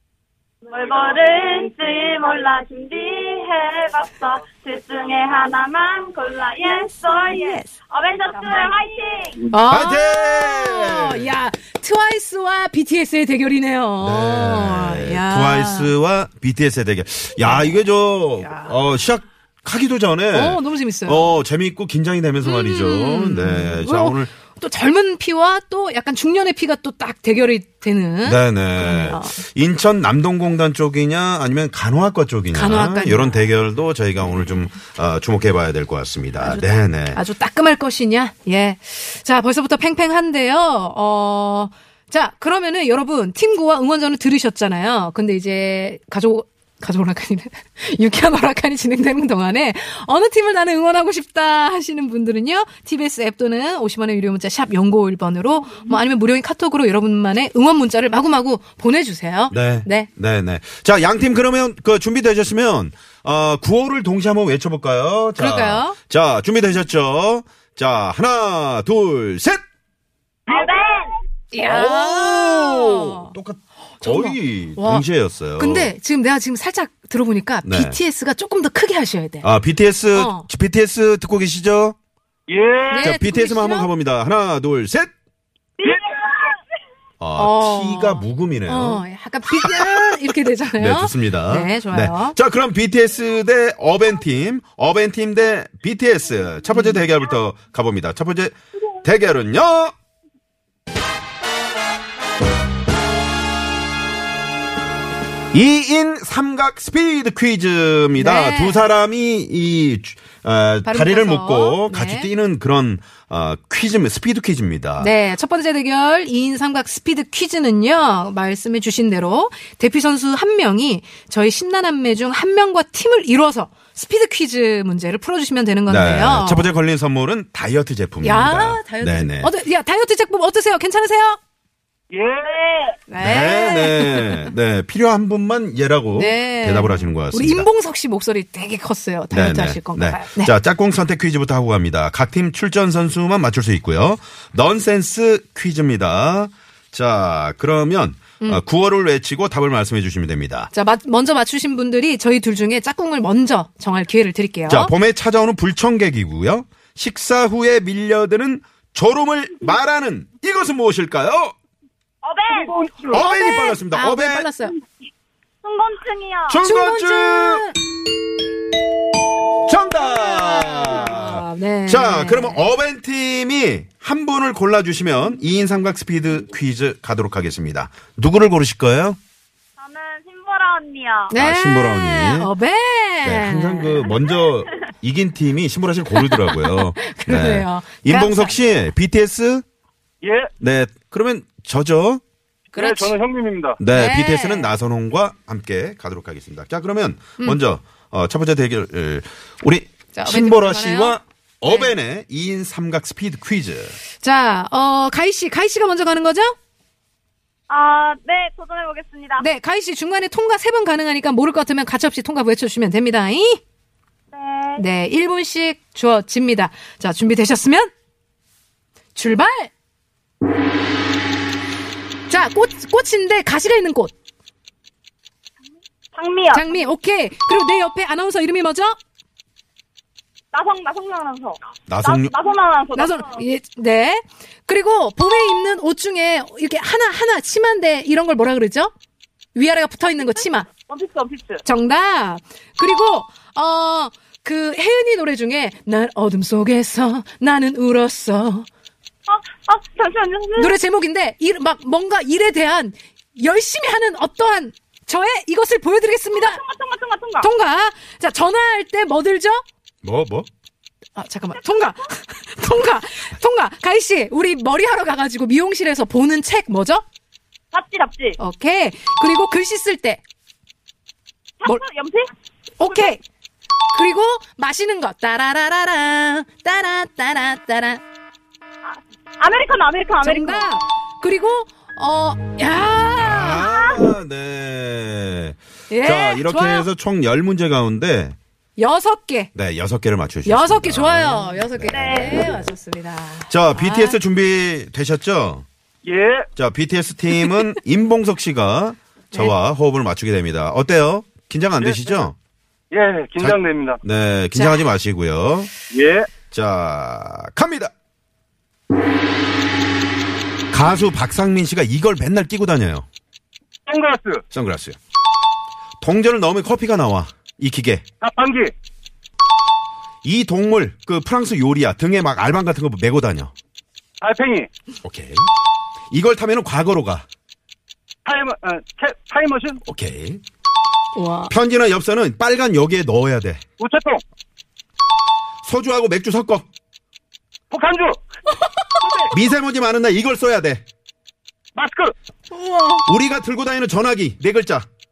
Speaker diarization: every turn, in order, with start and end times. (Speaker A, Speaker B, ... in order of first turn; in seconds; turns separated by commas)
Speaker A: 0.7-9.4, Speaker B: 9.5-15.9, Speaker C: 9.7-11.3, Speaker C: 14.0-24.3, Speaker B: 17.4-17.7, Speaker B: 18.4-18.7, Speaker B: 20.3-21.3, Speaker B: 22.4-29.4, Speaker C: 28.2-37.2, Speaker B: 32.5-33.4, Speaker B: 36.4-60.1, Speaker C: 59.5-69.6, Speaker B: 65.4-66.0, Speaker A: 70.5-71.1, Speaker B: 71.5-73.3, Speaker C: 71.6-75.9, Speaker B: 74.0-75.0, Speaker B: 75.6-79.5, Speaker C: 77.6-78.0, Speaker C: 79.4-82.0, Speaker B: 80.1-80.5, Speaker D: 82.5-83.0, Speaker B: 82.9-83.9, Speaker C: 83.0-85.1, Speaker A: 85.8-86.5, Speaker C: 87.2-90.2, Speaker B: 87.4-92.3, Speaker C: 90.7-99.9, Speaker B: 96.7-97.0, Speaker C: 105.5-115.1, Speaker B: 108.2-108.8, Speaker B: 110.8-112.3, Speaker B: 115.0-126.7, Speaker C: 125.9-129.5, Speaker B: 128.2-131.4, Speaker D: 132.1-132.9, Speaker A: 132.5-132.8, Speaker B: 133.1-134.5, Speaker C: 133.2-137.7, Speaker B: 136.2-140.5, Speaker C: 139.3-150.7, Speaker B: 150.7-154.9, Speaker C: 154.7-161.5, Speaker A: 162.2-162.7, Speaker D: 162.5-163.2, Speaker C: 163.1-164.5, Speaker B: 163.2-164.8, Speaker A: 165.6-166.6, Speaker C: 166.5-167.7, Speaker B: 166.6-167.8, Speaker C: 169.6-179.2, Speaker B: 170.1-172.6, Speaker A: 179.8-181.3, Speaker B: 181.3-184.1, Speaker C: 181.3-182.5, Speaker C: 183.2-189.6, Speaker B: 186.2-188.8, Speaker D: 190.2-190.5, Speaker C: 190.6-192.2, Speaker B: 192.7-193.1, Speaker D: 192.7-193.8, Speaker C: 193.8-203.9, Speaker B: 193.9-194.7, Speaker B: 200.1-201.9, Speaker B: 204.2-206.5, Speaker A: 207.7-209.4, Speaker B: 209.4-213.6, Speaker A: 214.3-214.8, Speaker B: 214.8-217.9, Speaker B: 219.1-219.7, Speaker B: 222.3-224.1, Speaker A: 226.1-226.6, Speaker B: 226.5-228.9, Speaker A: 230.5-233.4, Speaker C: 231.9-232.3, Speaker B: 232.9-238.9, Speaker B: 239.5-240.7, Speaker A: 240.9-241.6, Speaker B: 241.6-248.7, Speaker A: 249.3-250.7, Speaker B: 250.6-256.6, Speaker A: 256.3-257.5, Speaker B: 257.4-259.6, Speaker C: 260.0-260.5, Speaker B: 261.1-267.0, Speaker A: 267.7-268.4, Speaker B: 268.4-270.2, Speaker A: 271.6-272.3, Speaker B: 272.8-273.2, Speaker B: 273.9-278.0, Speaker A: 278.8-280.6, Speaker B: 280.2-283.7, Speaker C: 283.2-288.4, Speaker B: 285.9-286.9, Speaker B: 288.8-289.5, Speaker C: 289.5-292.7, Speaker B: 290.4-294.2, Speaker A: 291.9-292.6, Speaker C: 293.5-295.6, Speaker D: 296.0-296.5, Speaker C: 296.6-302.3, Speaker D: 301.8-302.2, Speaker D: 302.9-304.0, Speaker C: 303.4-305.7, Speaker B: 304.5-304.8, Speaker D: 305.9-306.3, Speaker C: 306.5-307.9, Speaker C: 310.7-313.1, Speaker D: 313.9-314.4, Speaker C: 314.5-315.0, Speaker C: 316.0-318.0, Speaker D: 318.2-318.7, Speaker C: 320.2-323.5, Speaker D: 324.2-324.7, Speaker C: 325.0-325.5, Speaker C: 326.1-327.2, Speaker D: 328.2-329.8, Speaker C: 329.9-330.4, Speaker B: 331.1-331.5, Speaker C: 331.5-333.6, Speaker D: 333.8-334.2, Speaker C: 335.6-336.6, Speaker D: 337.7-338.2, Speaker D: 339.0-339.3, Speaker C: 339.3-340.8, Speaker D: 341.8-342.1, Speaker B: 342.5-343.1, Speaker C: 343.1-344.9